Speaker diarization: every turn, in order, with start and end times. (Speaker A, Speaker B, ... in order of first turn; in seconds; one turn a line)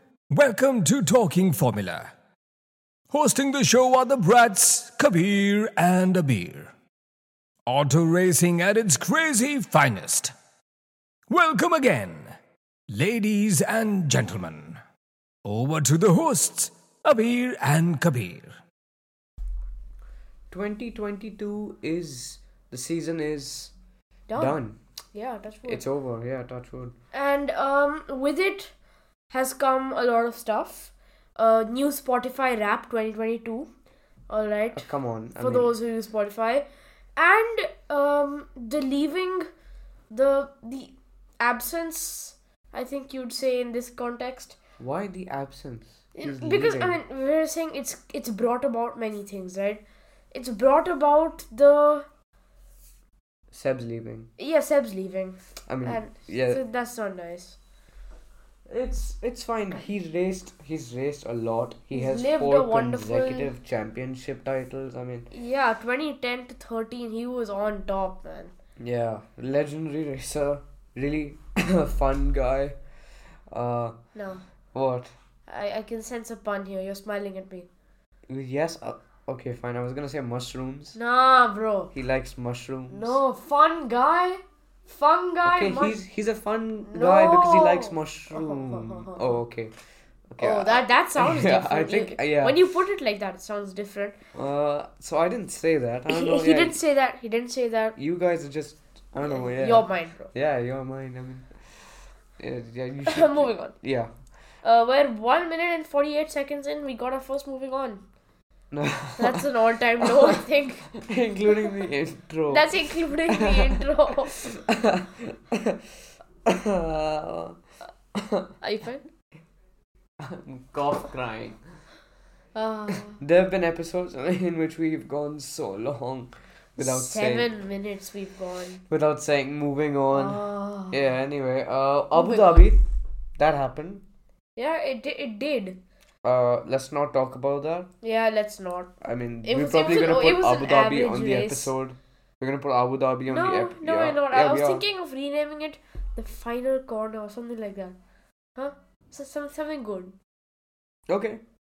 Speaker A: 0.3-2.1
Speaker A: 3.1-6.7
Speaker A: 7.7-10.3
Speaker A: 11.3-12.3
Speaker A: 12.9-14.8
Speaker A: 15.4-18.5
Speaker B: 20.5-23.7
Speaker C: 24.3-24.6
Speaker B: 24.4-24.8
Speaker C: 25.1-25.8
Speaker B: 25.7-26.9
Speaker C: 27.1-28.7
Speaker C: 29.3-33.7
Speaker C: 34.3-36.7
Speaker B: 34.7-35.7
Speaker C: 37.2-39.5
Speaker C: 40.1-44.5
Speaker B: 44.8-47.0
Speaker C: 46.1-52.0
Speaker B: 53.5-54.3
Speaker C: 54.4-57.6
Speaker B: 55.7-56.6
Speaker B: 58.7-65.3
Speaker C: 61.9-63.5
Speaker C: 65.3-68.5
Speaker B: 68.8-72.8
Speaker B: 73.5-74.0
Speaker C: 74.1-74.4
Speaker B: 74.7-75.1
Speaker C: 75.5-77.7
Speaker B: 78.3-81.0
Speaker C: 80.9-81.9
Speaker B: 81.9-83.2
Speaker C: 82.9-86.0
Speaker B: 85.4-89.7
Speaker C: 86.9-89.4
Speaker B: 90.3-92.6
Speaker C: 90.4-94.2
Speaker B: 94.3-96.8
Speaker C: 96.1-98.0
Speaker B: 98.0-104.1
Speaker C: 99.2-100.3
Speaker C: 103.0-103.8
Speaker C: 104.6-108.0
Speaker B: 108.7-109.5
Speaker C: 109.2-110.9
Speaker B: 110.0-110.4
Speaker B: 110.9-113.8
Speaker C: 112.5-114.4
Speaker B: 114.4-115.8
Speaker B: 116.4-117.6
Speaker B: 118.2-118.5
Speaker C: 118.6-119.0
Speaker B: 120.2-121.6
Speaker C: 122.5-123.2
Speaker B: 123.2-127.5
Speaker C: 126.8-128.8
Speaker B: 128.9-132.8
Speaker C: 130.1-131.0
Speaker C: 132.2-132.7
Speaker B: 133.4-134.0
Speaker C: 134.6-135.8
Speaker B: 136.2-137.9
Speaker C: 138.0-138.9
Speaker B: 139.0-144.8
Speaker C: 139.4-141.7
Speaker C: 143.3-148.0
Speaker C: 148.6-150.2
Speaker B: 151.1-151.4